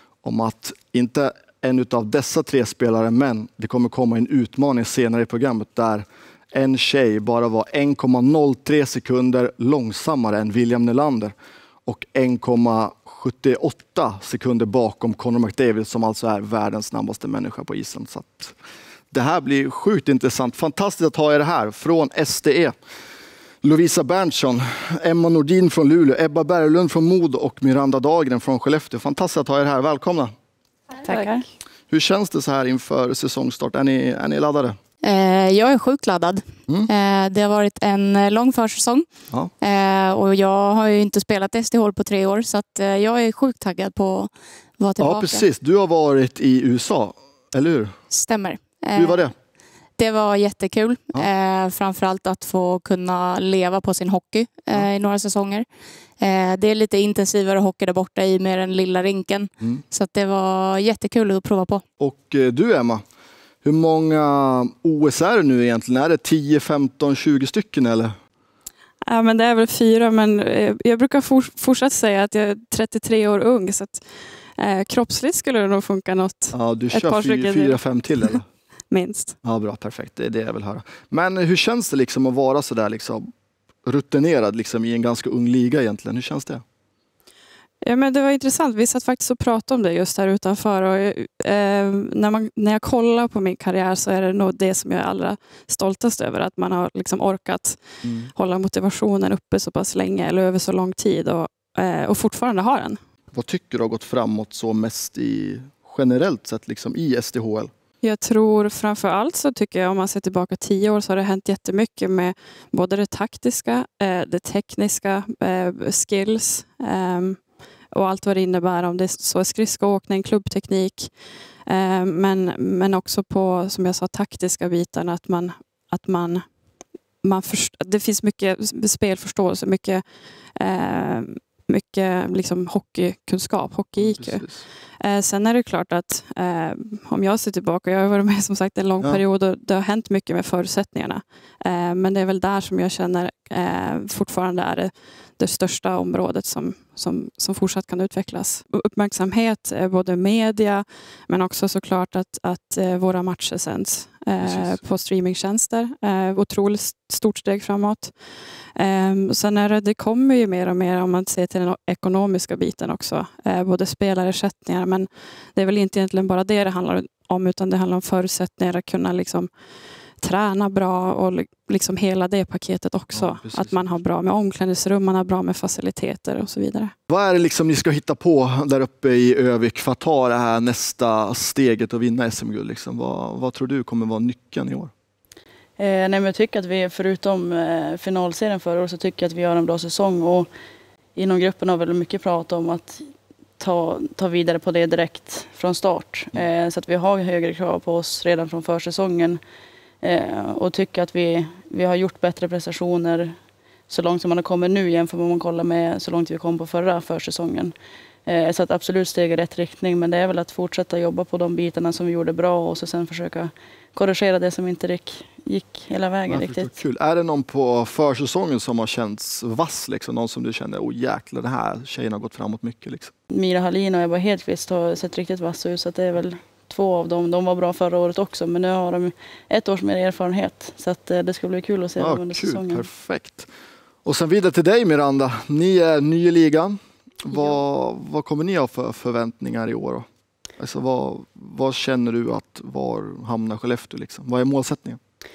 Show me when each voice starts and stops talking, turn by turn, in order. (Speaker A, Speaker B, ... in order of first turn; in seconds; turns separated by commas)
Speaker A: 0.2-11.3, Speaker A: 11.9-18.6, Speaker A: 19.1-22.8, Speaker A: 23.6-30.3, Speaker B: 31.0-31.4, Speaker A: 31.9-34.8, Speaker C: 35.0-39.1, Speaker C: 39.6-45.4, Speaker A: 45.0-48.0, Speaker C: 48.1-49.3, Speaker A: 49.0-49.3, Speaker C: 50.0-55.7, Speaker C: 56.2-61.8, Speaker A: 62.0-63.0, Speaker A: 63.6-68.2, Speaker D: 69.1-74.0, Speaker D: 74.6-78.4, Speaker A: 76.5-78.5, Speaker D: 78.9-79.4, Speaker A: 79.4-83.3, Speaker A: 83.8-86.6, Speaker D: 87.8-103.0, Speaker A: 98.0-98.3, Speaker A: 103.3-107.7, Speaker D: 108.0-126.5, Speaker D: 127.2-134.4, Speaker A: 134.0-134.6, Speaker D: 135.0-169.5, Speaker A: 154.4-154.8, Speaker D: 170.2-176.9, Speaker A: 173.1-173.9, Speaker A: 177.1-184.9, Speaker B: 185.8-190.5, Speaker B: 191.2-193.1, Speaker B: 193.6-199.4, Speaker B: 200.0-203.4, Speaker B: 203.9-207.8, Speaker B: 208.3-216.7, Speaker A: 216.3-223.1, Speaker B: 223.3-232.9, Speaker A: 232.0-233.5, Speaker A: 234.1-245.0